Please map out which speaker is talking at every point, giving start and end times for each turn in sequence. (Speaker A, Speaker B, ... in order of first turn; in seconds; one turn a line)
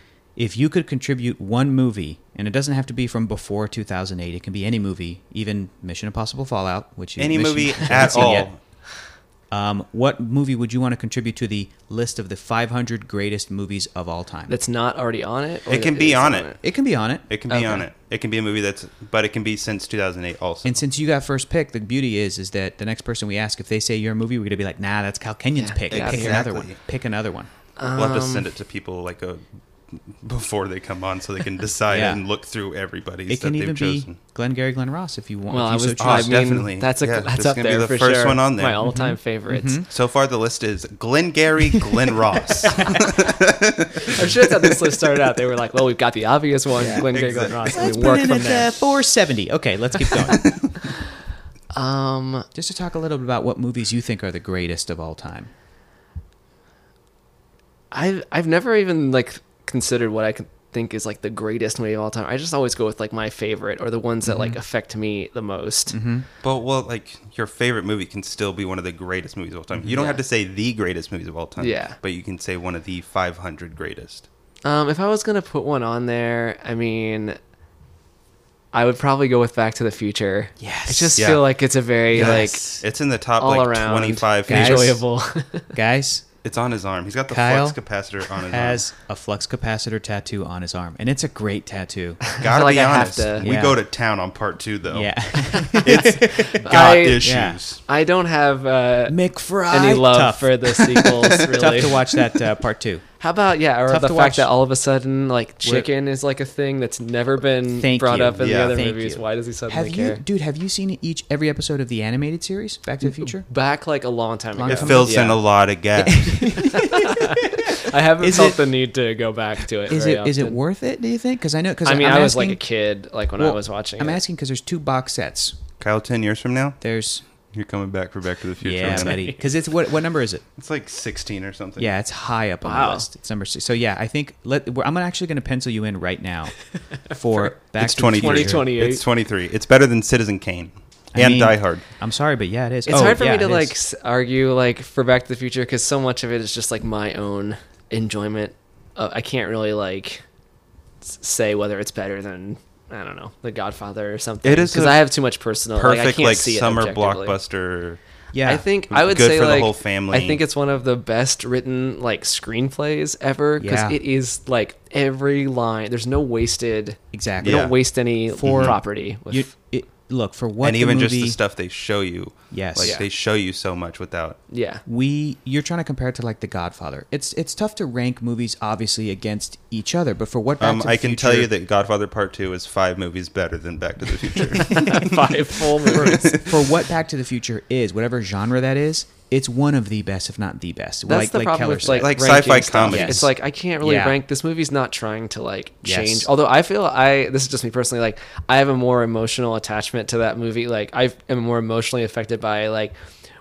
Speaker A: 0.4-8.5
Speaker B: 7.2-8.6
Speaker A: 9.5-14.5
Speaker C: 14.5-16.6
Speaker B: 15.7-16.6
Speaker A: 16.6-17.3
Speaker B: 17.3-20.8
Speaker C: 17.5-17.9
Speaker A: 20.6-27.5
Speaker C: 25.6-26.4
Speaker B: 25.9-26.8
Speaker C: 27.8-28.5
Speaker B: 27.9-34.2
Speaker A: 31.9-32.2
Speaker A: 33.3-36.6
Speaker C: 35.5-39.8
Speaker B: 36.0-38.8
Speaker A: 38.8-39.9
Speaker B: 39.9-44.5
Speaker A: 42.8-43.1
Speaker C: 44.0-48.7
Speaker A: 46.8-50.7
Speaker B: 46.9-47.9
Speaker B: 50.4-50.7
Speaker C: 51.7-52.5
Speaker A: 52.5-55.5
Speaker C: 57.9-66.0
Speaker A: 64.2-64.6
Speaker A: 65.9-66.3
Speaker B: 66.4-74.3
Speaker C: 69.9-70.2
Speaker C: 71.6-72.0
Speaker C: 74.6-77.4
Speaker C: 78.7-82.8
Speaker A: 80.6-81.2
Speaker B: 81.2-81.6
Speaker B: 82.1-85.0
Speaker A: 82.1-82.5
Speaker C: 83.4-85.8
Speaker A: 84.5-85.0
Speaker A: 85.7-86.3
Speaker B: 86.4-88.8
Speaker A: 87.3-87.8
Speaker A: 88.4-92.2
Speaker C: 92.3-93.5
Speaker B: 92.4-97.8
Speaker A: 93.4-93.8
Speaker A: 94.9-96.7
Speaker C: 95.5-97.3
Speaker A: 97.2-97.6
Speaker C: 97.9-102.0
Speaker A: 99.1-103.0
Speaker C: 103.2-110.2
Speaker A: 103.9-104.5
Speaker A: 105.6-105.9
Speaker A: 107.8-113.5
Speaker B: 108.4-108.8
Speaker C: 113.0-115.4
Speaker A: 114.5-115.4
Speaker B: 114.7-116.7
Speaker A: 116.0-118.6
Speaker C: 116.6-120.6
Speaker A: 119.9-122.6
Speaker C: 121.8-124.2
Speaker A: 123.4-125.6
Speaker B: 125.8-126.8
Speaker A: 126.8-127.2
Speaker B: 127.5-129.2
Speaker A: 128.6-130.4
Speaker C: 128.9-129.4
Speaker B: 130.6-131.9
Speaker A: 131.8-138.7
Speaker C: 132.6-133.1
Speaker C: 137.3-139.0
Speaker B: 137.8-141.8
Speaker A: 141.1-143.7
Speaker C: 142.9-150.2
Speaker C: 151.0-157.4
Speaker B: 154.4-155.1
Speaker B: 155.7-158.0
Speaker A: 158.3-158.6
Speaker C: 158.4-169.5
Speaker B: 158.9-160.4
Speaker A: 163.6-164.0
Speaker A: 167.1-167.7
Speaker B: 167.4-167.8
Speaker A: 168.3-171.4
Speaker B: 168.4-168.8
Speaker B: 170.6-174.4
Speaker A: 172.5-173.0
Speaker C: 172.8-173.1
Speaker C: 174.5-174.8
Speaker A: 174.8-181.5
Speaker B: 180.6-185.3
Speaker C: 184.6-186.4
Speaker B: 185.9-186.5
Speaker A: 186.0-194.2
Speaker C: 191.1-202.9
Speaker B: 191.8-193.3
Speaker A: 195.8-196.3